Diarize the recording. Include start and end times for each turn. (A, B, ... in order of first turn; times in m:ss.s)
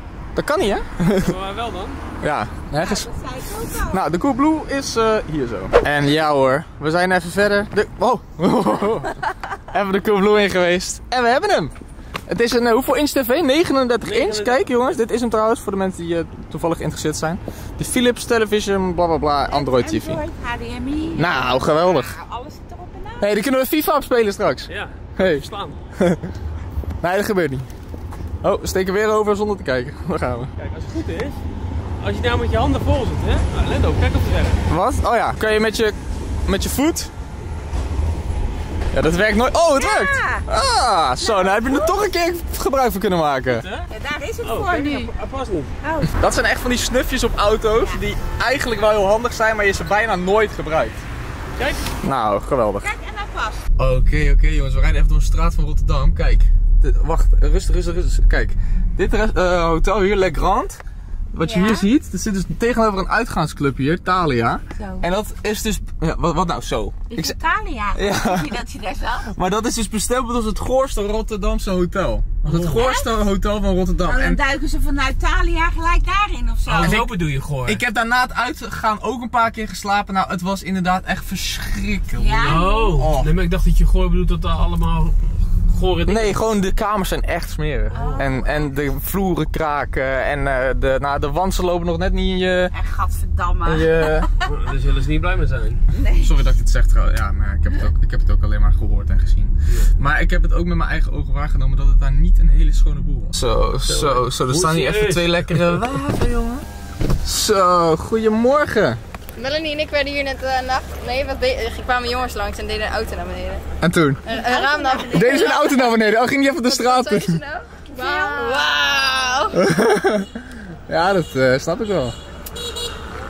0:00.4-0:01.4 A
0:01.2-0:02.0 B
0:02.2-0:03.1 A
0:02.8-0:04.0 C
0:03.9-0:11.7 A
0:12.3-0:20.2 A
0:14.0-0:14.7 B
0:19.5-0:23.3 C
0:21.2-0:22.2 A
0:23.2-0:25.4 A
0:24.7-0:25.8 B
0:26.0-0:26.3 A
0:27.0-0:27.7 A
0:28.4-0:30.5 A
0:30.6-0:31.4 B
0:32.0-0:34.6 B
0:34.7-0:37.1 A
0:38.9-0:43.6 A
0:39.8-0:40.5 C
0:41.2-0:42.0 C
0:43.5-0:43.9 B
0:43.9-0:45.1 C
0:44.4-0:45.7 B
0:45.8-0:46.1 C
0:46.1-0:51.0 A
0:51.6-0:51.8 B
0:52.0-0:52.9 A
0:52.8-0:53.6 C
0:53.8-1:00.8 A
1:01.3-1:07.4 A
1:01.4-1:01.9 C
1:04.8-1:05.1 C
1:07.1-1:09.3 C
1:08.0-1:08.5 A
1:09.3-1:14.4 A
1:12.4-1:12.8 B
1:12.8-1:13.1 C
1:14.0-1:17.0 C
1:16.7-1:17.8 B
1:16.8-1:17.1 A
1:17.6-1:23.3 A
1:22.2-1:23.0 C
1:22.4-1:26.4 B
1:26.1-1:32.7 A
1:27.9-1:28.5 C
1:27.9-1:28.3 B
1:32.7-1:34.5 C
1:33.6-1:34.3 A
1:34.4-1:35.8 B
1:35.9-1:36.3 C
1:36.2-1:46.6 A
1:43.8-1:45.9 B
1:47.2-1:49.0 A
1:49.4-1:53.6 D
1:53.8-1:54.2 A
1:54.2-1:56.0 D
1:54.3-1:55.5 C
1:55.0-1:57.4 A
1:56.7-1:59.6 D
1:57.9-1:59.2 C
1:59.5-2:00.4 A
2:00.9-2:02.2 A